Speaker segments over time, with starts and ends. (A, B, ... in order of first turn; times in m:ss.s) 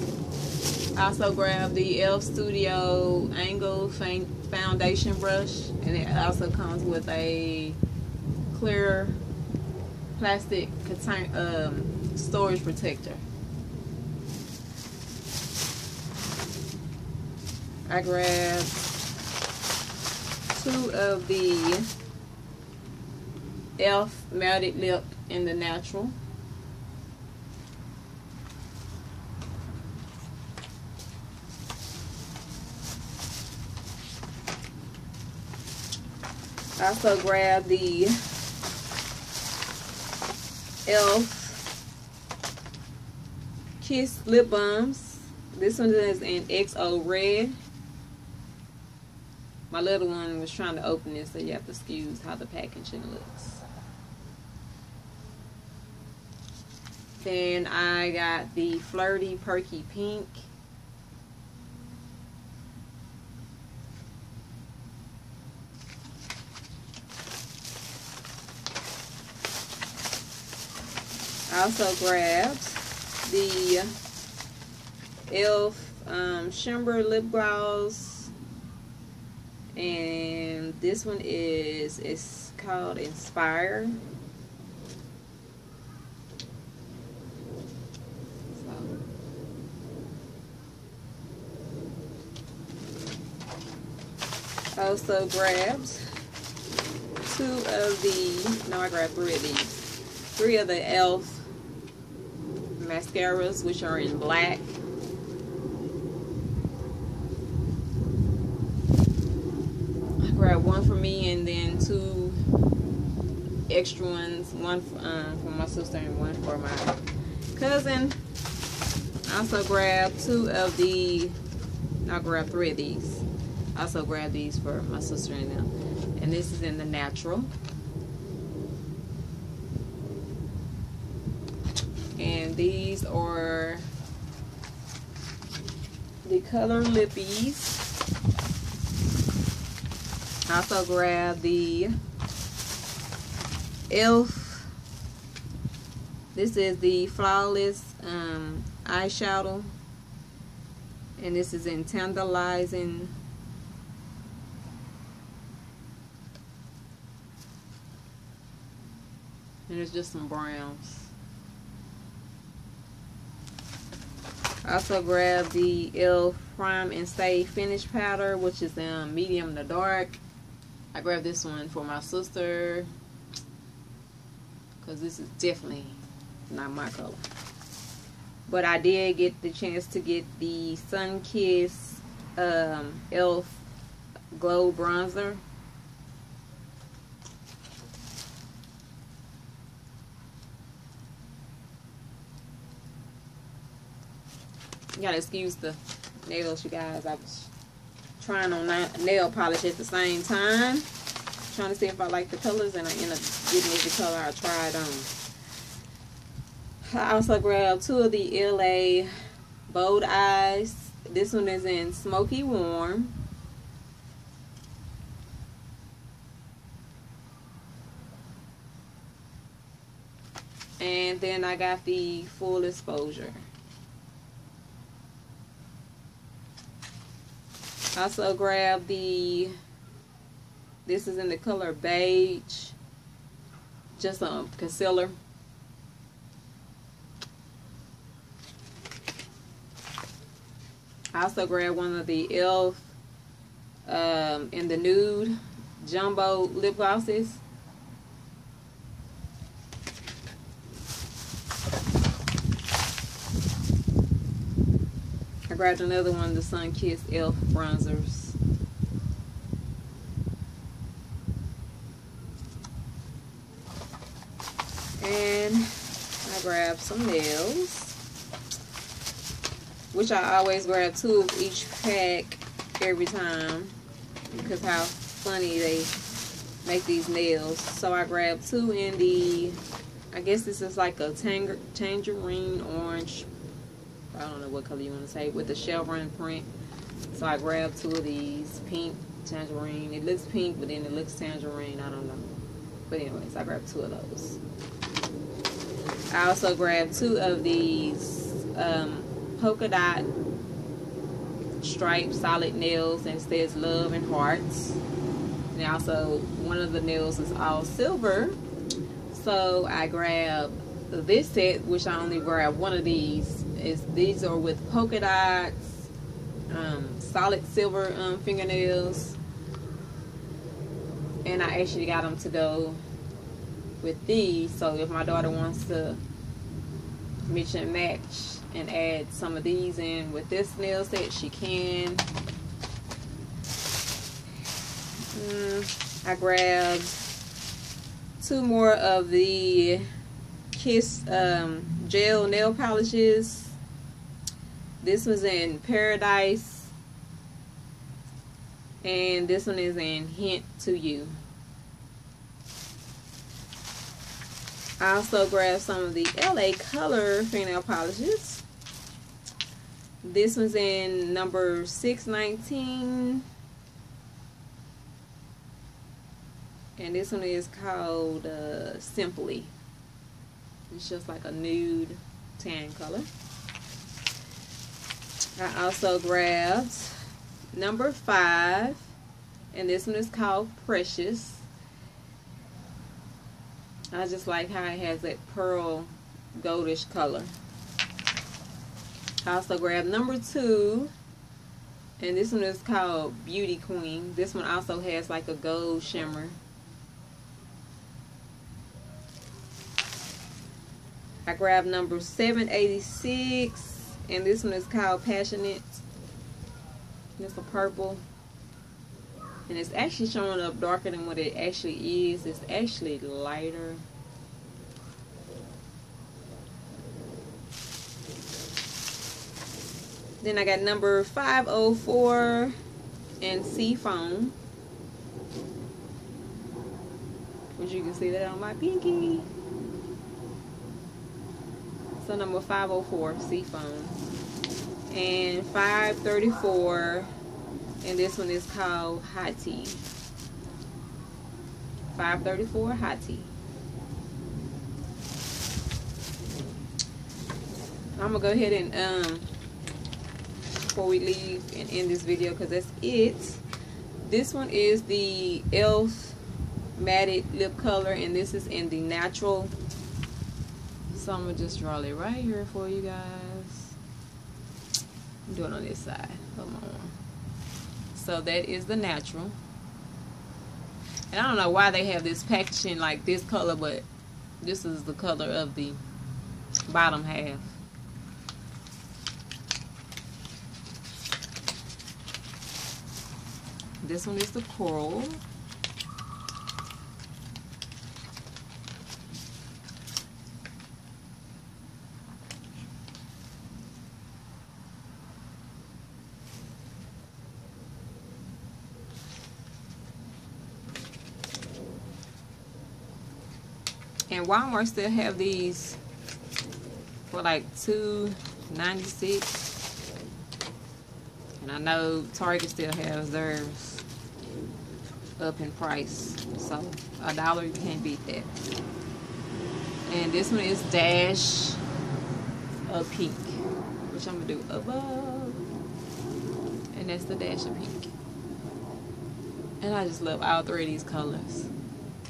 0:01.0-0:07.8 A
0:08.5-0:09.2 A
0:10.2-0:13.2 A
0:17.9-0:18.8 A
0:20.5-0:21.9 A
0:23.8-0:26.2 A
0:36.8-0:38.2 A
0:40.9-0:41.7 A
0:43.8-0:47.6 A
0:49.7-0:53.6 A
0:57.2-1:00.5 A
1:11.5-1:13.9 A
1:15.3-1:18.3 A
1:19.8-1:24.0 A
1:28.5-1:28.9 A
1:34.8-1:36.0 A
1:37.2-1:39.8 A
1:40.4-1:41.5 A
1:42.8-1:44.8 A
1:50.2-1:52.4 A
1:53.7-1:57.0 A
1:57.6-1:58.2 A
1:59.3-2:01.4 A
2:02.0-2:07.5 A
2:12.2-2:13.9 A
2:16.2-2:17.9 A
2:20.5-2:22.0 A
2:23.9-2:24.7 A
2:26.3-2:29.7 A
2:31.2-2:33.2 A
2:39.7-2:41.1 A
2:44.6-2:50.2 A
2:50.9-2:52.9 A
2:54.8-2:57.2 A
2:58.5-3:03.6 A
3:04.3-3:05.4 A
3:15.0-3:17.5 A
3:18.2-3:20.9 A
3:21.5-3:25.1 A
3:26.8-3:29.1 A
3:29.7-3:33.2 A
3:40.8-3:43.4 A
3:48.0-3:49.6 A
3:50.9-3:52.8 A
3:54.0-3:55.2 A
4:01.1-4:02.9 A
4:03.9-4:07.4 A
4:15.5-4:18.4 A
4:25.0-4:25.7 A
4:26.2-4:28.0 A
4:29.9-4:33.8 A
4:34.3-4:36.0 A
4:36.6-4:39.6 A
4:40.1-4:43.3 A
4:44.1-4:46.5 A
4:47.1-4:52.3 A
4:52.9-4:54.4 A
4:56.1-5:00.1 A
5:01.6-5:04.8 A
5:05.5-5:08.4 A
5:09.1-5:15.9 A
5:16.5-5:19.2 A
5:21.2-5:22.8 A
5:23.8-5:26.0 A
5:27.3-5:32.1 A
5:35.1-5:37.1 A
5:38.2-5:39.9 A
5:40.5-5:43.6 A
5:44.8-5:46.7 A
5:48.8-5:51.2 A
5:54.8-5:58.4 A
6:00.0-6:03.2 A
6:06.8-6:09.5 A
6:10.7-6:13.1 A
6:15.4-6:17.0 A
6:17.5-6:18.9 A
6:19.5-6:21.5 A
6:23.9-6:27.3 A
6:29.2-6:30.9 A
6:32.0-6:36.4 A
6:41.3-6:45.8 A
6:47.2-6:48.0 A
6:49.5-6:53.8 A
7:00.2-7:02.6 A
7:03.2-7:04.4 A
7:07.6-7:09.3 A
7:12.0-7:14.0 A
7:14.9-7:17.1 A
7:17.8-7:19.8 A
7:21.9-7:23.3 A
7:28.0-7:29.3 A
7:30.6-7:33.4 A
7:34.0-7:36.2 A
7:36.8-7:39.5 A
7:40.9-7:43.8 A
7:45.3-7:47.0 A
7:47.9-7:49.4 A
7:51.1-7:53.9 A
7:54.4-7:55.8 A
7:56.7-7:57.6 A
8:03.8-8:05.2 A
8:24.1-8:25.8 A
8:27.1-8:29.5 A
8:31.4-8:33.8 A
8:35.2-8:38.4 A
8:39.9-8:41.6 A
8:42.7-8:45.5 A
8:46.7-8:47.9 A
8:49.6-8:51.5 A